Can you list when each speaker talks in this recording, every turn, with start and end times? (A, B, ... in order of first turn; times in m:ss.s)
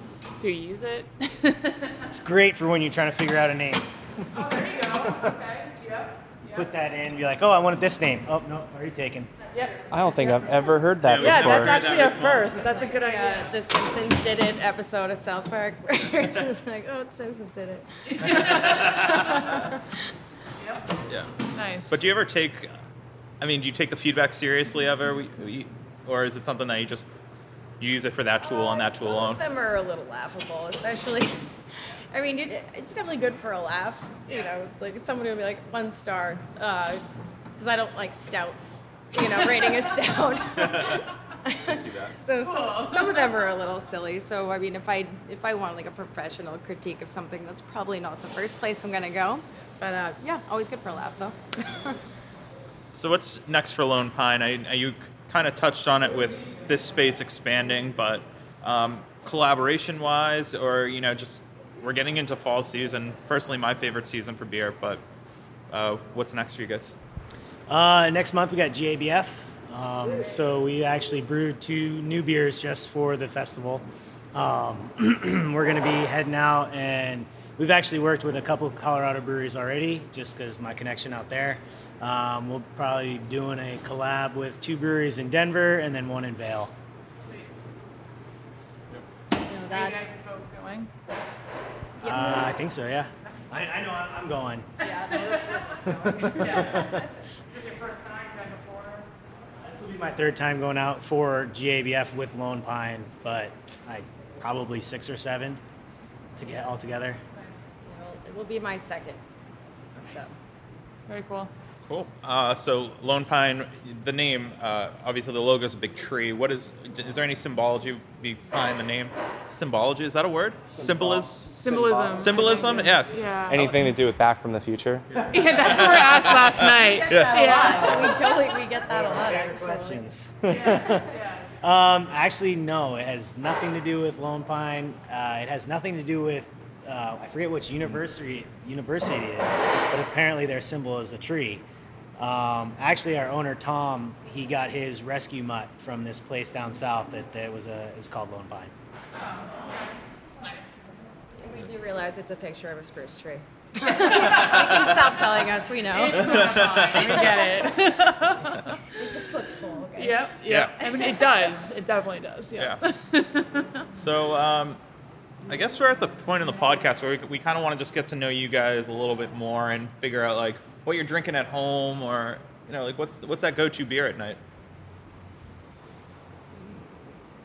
0:00.4-0:02.0 A
0:02.1-0:05.4 B
0:04.4-0:06.7 A
0:06.5-0:09.3 B
0:09.5-0:10.8 C
0:09.5-0:09.8 A
0:09.9-0:11.9 D
0:11.0-0:12.6 E
0:11.2-0:13.5 A
0:12.4-0:19.8 C
0:18.1-0:18.8 A
0:21.5-0:22.0 A
0:21.9-0:22.7 E
0:23.4-0:27.1 E
0:27.8-0:29.4 E
0:28.4-0:31.4 C
0:32.1-0:37.0 C
0:37.6-0:52.0 C
0:41.8-0:42.1 E
0:42.4-0:43.2 A
0:52.9-1:05.0 E
1:05.7-1:07.0 E
1:07.7-1:26.7 B
1:29.4-1:30.0 C
1:29.7-1:30.9 A
1:32.0-1:32.5 C
1:32.0-1:34.9 B
1:34.8-1:36.9 C
1:35.8-1:37.0 B
1:36.4-1:36.9 A
1:37.5-1:39.1 A
1:39.6-1:45.6 B
1:46.4-1:47.2 B
1:47.3-1:47.6 A
1:47.9-1:49.2 C
1:50.0-1:50.3 C
1:51.1-1:51.5 A
1:51.9-2:01.4 E
2:00.7-2:03.1 B
2:01.6-2:03.7 A
2:02.2-2:03.2 E
2:02.5-2:02.8 C
2:03.5-2:05.2 D
2:05.2-2:05.6 B
2:05.3-2:08.1 A
2:05.6-2:07.6 E
2:06.9-2:10.0 C
2:07.5-2:08.2 B
2:08.8-2:11.1 B
2:10.5-2:11.5 A
2:11.6-2:21.6 B
2:22.2-2:28.7 B
2:29.3-2:30.8 A
2:31.4-2:37.0 C
2:33.8-2:34.8 A
2:35.9-2:38.8 A
2:36.2-2:37.3 E
2:39.0-2:40.3 C
2:40.0-2:43.8 A
2:40.5-2:40.8 E
2:44.0-2:44.8 E
2:45.5-2:54.4 E